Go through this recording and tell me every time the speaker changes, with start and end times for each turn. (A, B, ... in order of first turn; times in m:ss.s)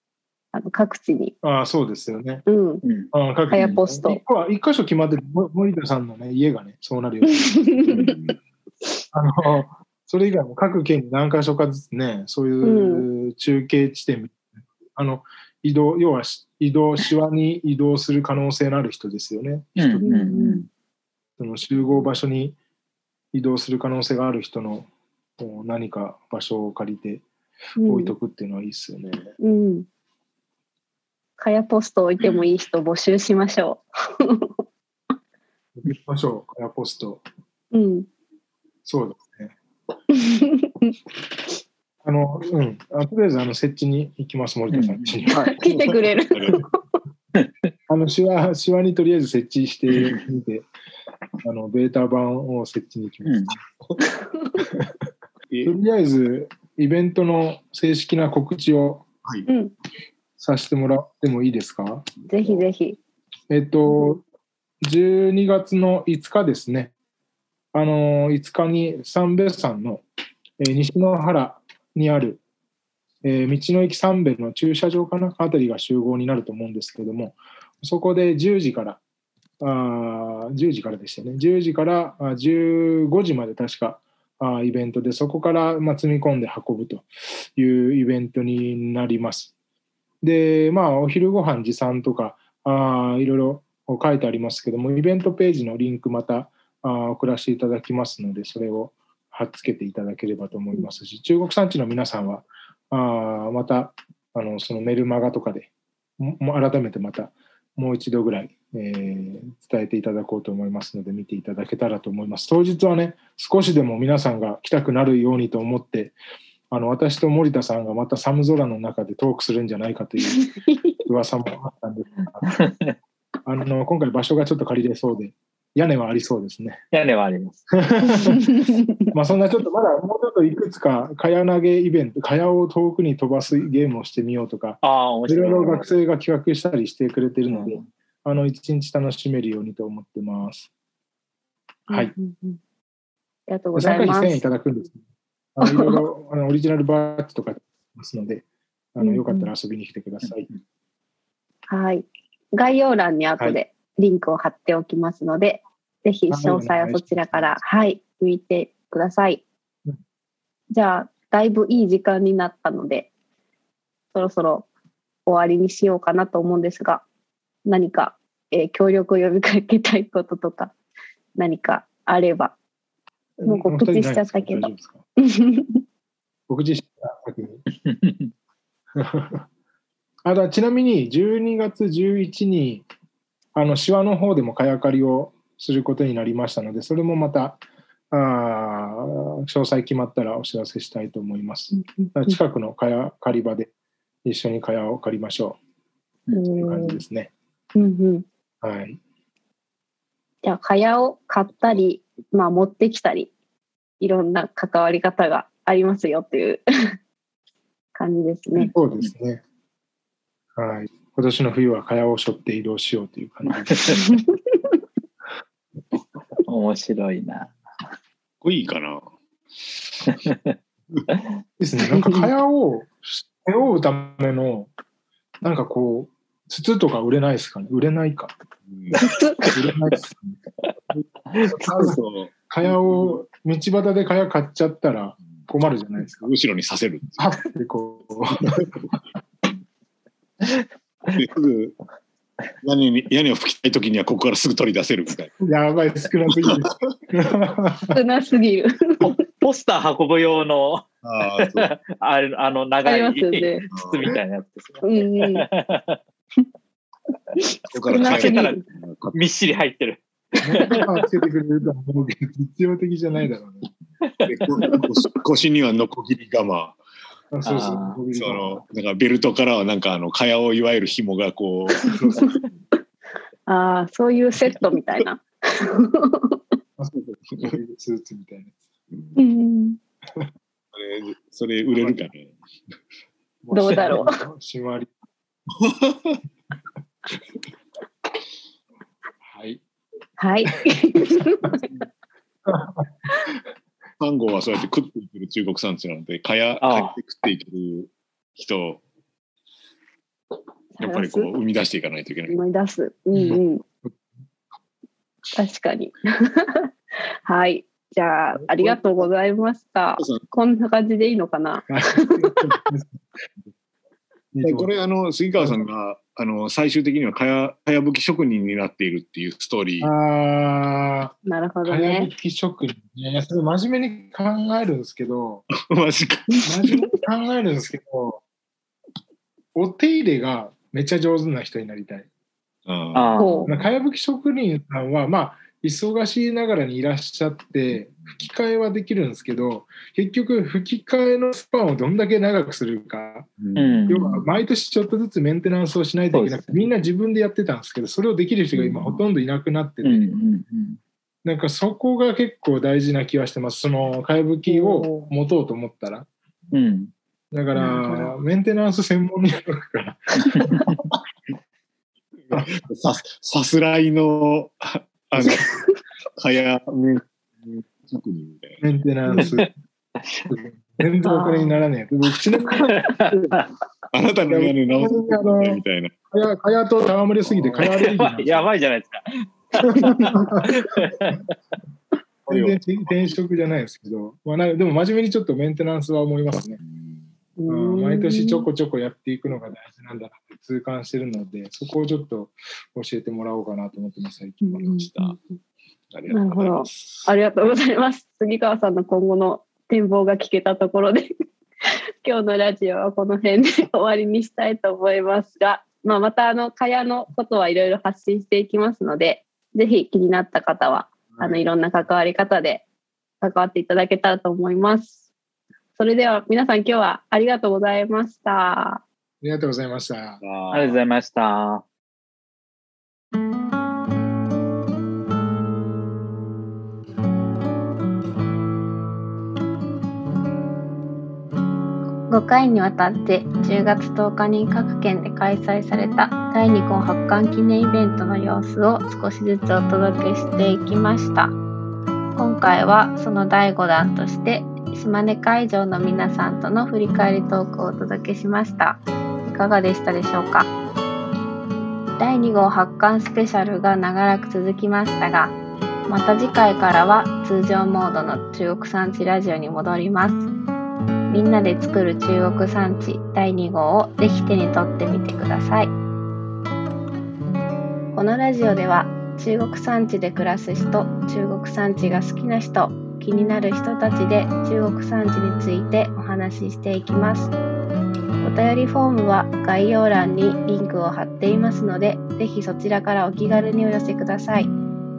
0:00.5-0:01.3 A
0:01.4-0:02.5 B
0:02.5-0:02.8 A
0:02.8-0:03.8 C
0:03.1-0:07.9 B
0:03.5-0:04.2 A
0:07.5-0:08.2 A
0:07.9-0:08.4 D
0:09.1-0:20.4 B
0:12.6-0:13.1 A
0:19.8-0:20.7 C
0:20.0-0:20.6 A
0:21.4-0:22.6 B
0:23.3-0:27.2 B
0:27.8-0:28.1 A
0:27.8-0:29.3 B
0:29.4-0:29.9 A
0:31.4-0:34.5 A
0:35.8-0:37.2 B
0:37.7-0:38.1 A
0:38.9-0:39.6 B
0:40.1-0:41.0 A
0:42.0-0:45.6 B
0:44.7-0:45.1 C
0:45.3-0:46.7 D
0:45.3-0:46.8 A
0:47.9-0:50.7 B
0:51.4-0:53.6 B
0:53.2-0:53.5 C
0:54.2-0:54.5 A
0:55.5-0:55.8 D
0:55.6-0:59.1 B
0:59.5-0:59.7 A
1:00.4-1:02.0 B
1:02.3-1:03.0 A
1:03.5-1:04.2 B
1:04.8-1:06.9 B
1:07.7-1:10.0 B
1:10.6-1:12.4 B
1:13.2-1:19.0 B
1:19.6-1:29.5 B
1:30.2-1:56.2 B
1:56.7-2:00.5 B
2:00.3-2:01.0 A
2:01.0-2:02.6 B
2:02.5-2:03.0 C
2:03.5-2:06.8 B
2:06.9-2:07.7 C
2:07.8-2:08.6 B
2:08.2-2:09.1 A
2:09.1-2:20.7 B
2:14.8-2:15.9 C
2:17.5-2:17.8 C
2:21.9-2:22.6 A
2:23.5-2:24.4 A
2:23.8-2:25.0 B
2:25.6-2:30.5 B
2:25.6-2:26.0 A
2:29.0-2:29.5 A
2:31.7-2:39.4 A
2:36.3-2:37.6 B
2:40.7-2:43.1 A
2:44.1-2:44.7 A
2:45.3-2:47.0 A
2:47.6-2:50.7 A
2:51.4-2:52.5 A
2:53.4-2:55.0 B
2:53.5-2:55.8 A
2:56.5-2:57.6 B
2:57.8-2:58.3 C
2:59.0-2:59.4 B
3:00.2-3:02.8 B
3:03.6-3:13.7 B
3:11.8-3:12.4 A
3:14.2-3:15.6 B
3:16.3-3:17.0 A
3:16.6-3:17.3 B
3:17.8-3:18.2 A
3:18.6-3:19.0 B
3:20.4-3:23.3 A
3:24.0-3:26.6 A
3:28.0-3:28.7 A
3:28.7-3:29.4 B
3:30.6-3:34.0 B
3:33.5-3:34.0 C
3:34.0-3:34.8 A
3:36.5-3:37.5 C
3:38.4-3:39.0 D
3:40.1-3:40.5 C
3:41.6-3:44.7 B
3:41.8-3:42.3 A
3:45.4-3:48.4 B
3:48.7-3:49.0 D
3:48.9-3:49.7 C
3:49.0-3:49.4 A
3:49.5-3:50.4 B
3:51.3-3:52.3 D
3:51.5-3:52.0 B
3:52.5-3:56.3 B
3:56.2-3:57.2 D
3:57.2-3:58.7 B
4:01.1-4:01.8 D
4:02.6-4:05.3 D
4:05.4-4:08.0 B
4:06.4-4:06.8 D
4:07.9-4:09.1 A
4:09.0-4:10.8 C
4:11.0-4:11.7 D
4:11.4-4:16.0 C
4:12.8-4:13.6 A
4:13.8-4:14.2 D
4:14.8-4:15.4 A
4:17.4-4:18.6 A
4:17.7-4:19.2 D
4:17.9-4:18.6 C
4:19.1-4:20.9 C
4:20.4-4:23.7 B
4:24.0-4:24.3 C
4:24.2-4:26.8 D
4:27.3-4:28.6 B
4:27.5-4:28.0 C
4:28.1-4:31.9 D
4:31.8-4:32.4 A
4:31.9-4:32.4 B
4:33.5-4:36.4 A
4:36.8-4:38.6 B
4:37.3-4:37.6 D
4:38.9-4:39.2 D
4:39.2-4:39.8 A
4:40.7-4:42.3 D
4:43.4-4:44.9 B
4:43.5-4:44.2 A
4:45.6-4:46.2 D
4:49.3-4:49.6 B
4:50.2-4:51.6 A
4:52.5-4:53.4 B
4:54.0-4:58.8 D
4:56.6-4:57.0 C
5:00.8-5:01.3 A
5:00.8-5:02.3 D
5:02.3-5:03.6 A
5:05.4-5:06.7 A
5:07.3-5:12.5 A
5:08.5-5:08.8 B
5:10.0-5:10.2 D
5:11.7-5:13.0 B
5:14.3-5:14.7 B
5:14.4-5:19.9 D
5:19.8-5:25.4 B
5:21.2-5:22.1 A
5:25.5-5:26.3 D
5:26.3-5:26.8 A
5:26.4-5:28.2 B
5:29.6-5:32.1 B
5:32.7-5:33.2 D
5:32.9-5:33.5 C
5:33.2-5:33.5 A
5:33.4-5:43.3 B
5:43.4-5:43.8 D
5:43.6-5:44.2 C
5:43.9-5:50.1 B
5:46.1-5:46.6 C
5:48.6-5:49.0 A
5:49.8-5:50.8 C
5:51.2-5:56.1 B
5:54.6-5:55.1 A
5:56.5-5:56.9 C
5:57.3-6:00.6 B
5:57.6-5:58.0 A
6:00.2-6:00.8 C
6:02.3-6:02.6 B
6:02.3-6:05.5 D
6:06.2-6:08.6 D
6:08.6-6:09.5 B
6:09.1-6:09.5 C
6:10.3-6:13.4 B
6:11.0-6:11.6 A
6:12.6-6:13.5 C
6:13.9-6:15.9 D
6:14.3-6:15.6 B
6:16.1-6:18.5 B
6:17.3-6:17.6 D
6:17.6-6:21.2 C
6:19.7-6:20.5 B
6:22.3-6:26.6 B
6:22.3-6:23.1 D
6:26.6-6:27.1 D
6:27.4-6:28.5 A
6:27.5-6:34.9 B
6:34.4-6:35.4 A
6:35.9-6:37.5 D
6:36.1-6:41.1 A
6:42.0-6:52.6 A
6:51.1-6:51.5 B
6:53.2-6:55.0 A
6:55.8-6:58.8 A
6:59.2-7:00.2 B
7:00.2-7:00.8 D
7:00.5-7:01.6 C
7:12.1-7:21.4 E
7:22.2-7:30.5 E
7:32.0-7:35.4 E
7:35.9-7:40.3 E
7:41.1-7:45.7 E
7:47.9-7:57.3 E
7:58.2-8:04.5 E